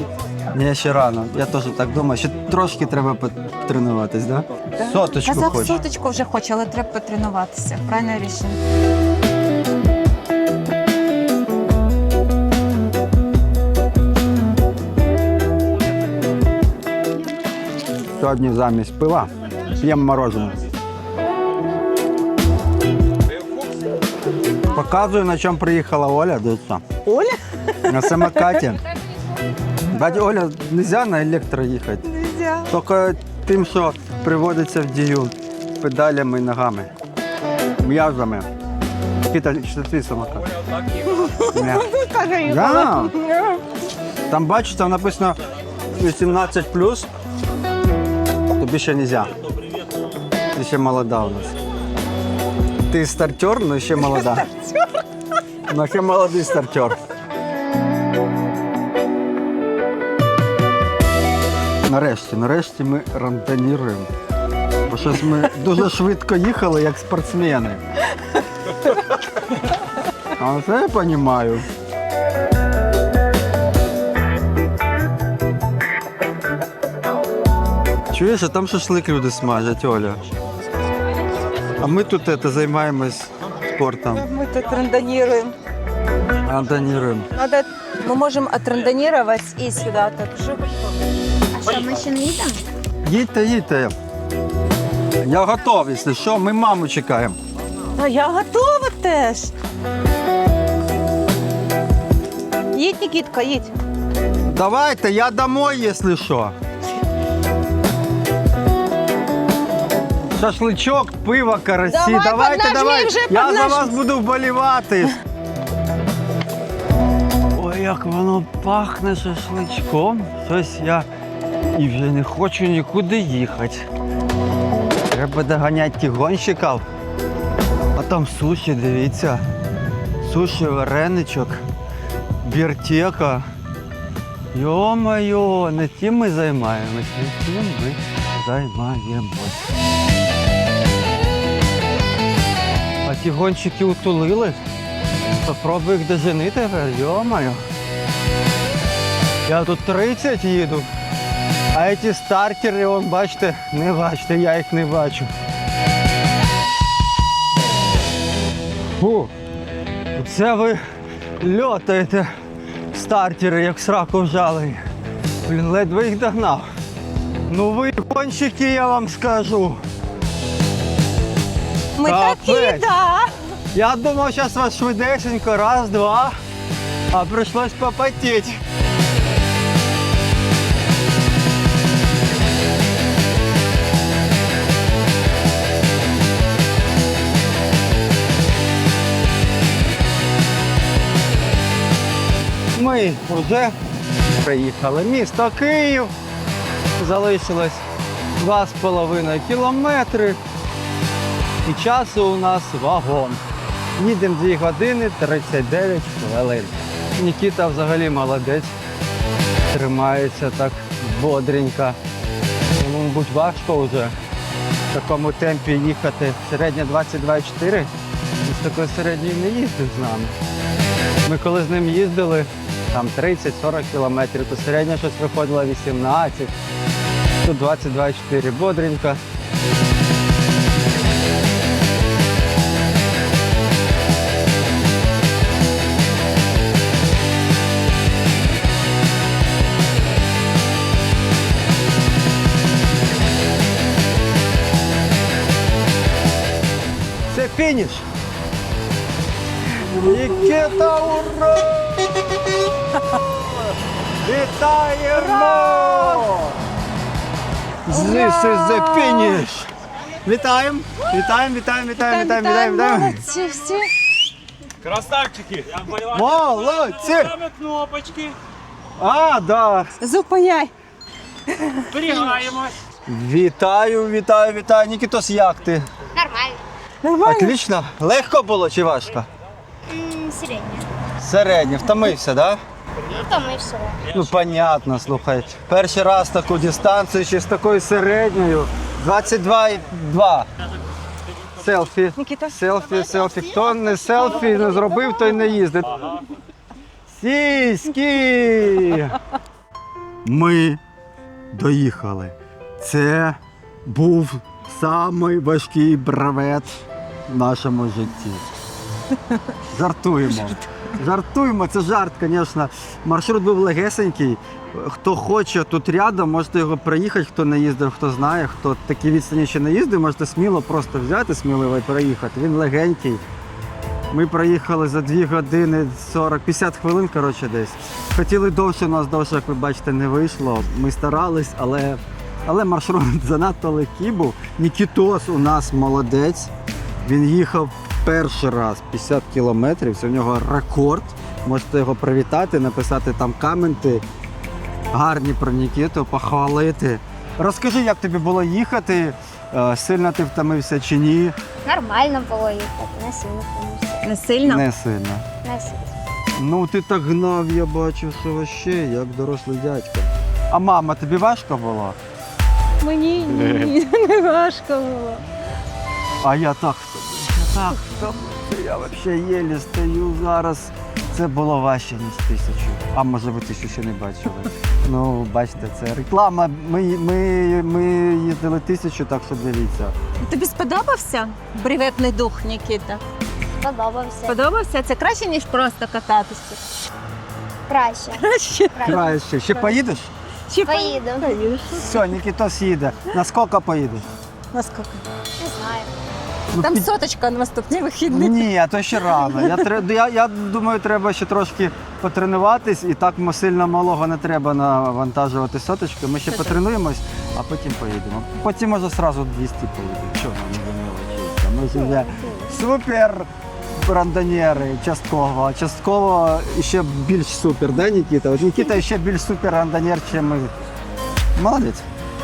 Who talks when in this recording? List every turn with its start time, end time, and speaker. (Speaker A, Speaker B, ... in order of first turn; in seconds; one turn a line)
Speaker A: 0.5-5.8
Speaker B: 4.8-8.6
Speaker A: 18.1-20.6
Speaker A: 24.7-26.8
Speaker B: 27.0-28.6
Speaker A: 27.8-28.8
Speaker A: 29.8-32.1
Speaker B: 32.0-32.7
Speaker A: 32.7-36.9
Speaker A: 37.8-38.5
Speaker A: 39.2-40.5
Speaker B: 41.0-43.6
Speaker A: 41.5-41.9
Speaker A: 42.4-43.1
Speaker A: 44.3-45.4
Speaker A: 46.0-47.1
Speaker A: 48.5-49.3
Speaker A: 50.5-51.5
Speaker A: 52.9-54.5
Speaker B: 54.1-54.9
Speaker A: 55.7-57.0
Speaker A: 61.9-64.1
Speaker A: 64.9-67.8
Speaker A: 70.3-71.7
Speaker A: 78.1-80.2
Speaker A: 81.8-84.2
Speaker B: 84.1-85.5
Speaker A: 86.4-87.3
Speaker B: 87.3-90.6
Speaker C: 91.5-92.6
Speaker A: 93.0-93.9
Speaker A: 95.2-97.4
Speaker B: 97.9-99.5
Speaker B: 102.7-103.7
Speaker A: 104.5-106.5
Speaker A: 110.3-115.2
Speaker B: 111.9-114.0
Speaker A: 117.5-121.1
Speaker A: 121.7-123.8
Speaker A: 125.1-126.8
Speaker A: 128.0-129.4
Speaker A: 130.2-131.6
Speaker A: 132.4-133.5
Speaker A: 134.5-139.7
Speaker A: 143.0-144.6
Speaker A: 145.4-147.6
Speaker A: 149.5-150.9
Speaker A: 151.7-155.3
Speaker A: 159.0-159.3
Speaker A: 160.1-160.8
Speaker A: 161.4-162.3
Speaker A: 162.9-164.8
Speaker A: 165.4-166.7
Speaker A: 167.5-169.8
Speaker B: 172.0-173.3
Speaker A: 172.0-172.9
Speaker A: 173.7-176.3
Speaker A: 177.1-178.6
Speaker A: 192.7-193.7
Speaker A: 194.3-196.1
Speaker A: 197.0-197.8
Speaker A: 198.4-200.4
Speaker A: 201.6-203.4
Speaker A: 204.0-208.7
Speaker A: 209.7-212.0
Speaker A: 212.8-214.1
Speaker A: 214.9-217.9
Speaker A: 218.4-220.3
Speaker A: 221.2-226.5
Speaker A: 227.4-229.2
Speaker A: 247.3-248.0
Speaker A: 249.8-252.4
Speaker A: 253.1-253.6
Speaker A: 254.2-256.6
Speaker B: 255.1-256.3
Speaker A: 257.9-259.7
Speaker B: 257.9-259.5
Speaker A: 260.2-263.2
Speaker B: 262.0-263.9
Speaker A: 264.8-267.5
Speaker A: 269.0-269.9
Speaker B: 270.0-270.7
Speaker B: 271.5-272.7
Speaker A: 273.1-275.9
Speaker C: 276.1-276.6
Speaker B: 277.0-277.6
Speaker A: 277.2-279.3
Speaker C: 279.9-280.9
Speaker A: 281.2-282.6
Speaker C: 283.1-284.0
Speaker A: 284.1-290.5
Speaker A: 291.6-296.2
Speaker B: 292.2-295.6
Speaker A: 297.1-299.2
Speaker A: 300.2-300.8
Speaker A: 301.5-306.7
Speaker A: 307.3-308.4
Speaker A: 309.7-323.2
Speaker A: 324.1-336.5
Speaker A: 337.0-344.0
Speaker A: 344.9-351.4
Speaker C: 351.6-354.1
Speaker B: 354.0-354.6
Speaker A: 354.4-355.2
Speaker C: 355.4-355.8
Speaker A: 356.4-362.0
Speaker B: 362.8-365.2
Speaker A: 363.3-363.7
Speaker A: 366.2-379.9
Speaker B: 380.2-383.0
Speaker C: 383.6-384.4
Speaker B: 384.3-386.9
Speaker C: 387.7-389.2
Speaker B: 388.1-389.1
Speaker A: 388.8-390.1
Speaker B: 390.5-392.1
Speaker C: 390.6-391.6
Speaker A: 391.8-394.1
Speaker B: 394.5-395.0
Speaker C: 395.4-395.9
Speaker A: 396.5-396.9
Speaker B: 396.6-399.7
Speaker A: 398.1-420.5
Speaker C: 411.8-412.5
Speaker A: 421.4-421.8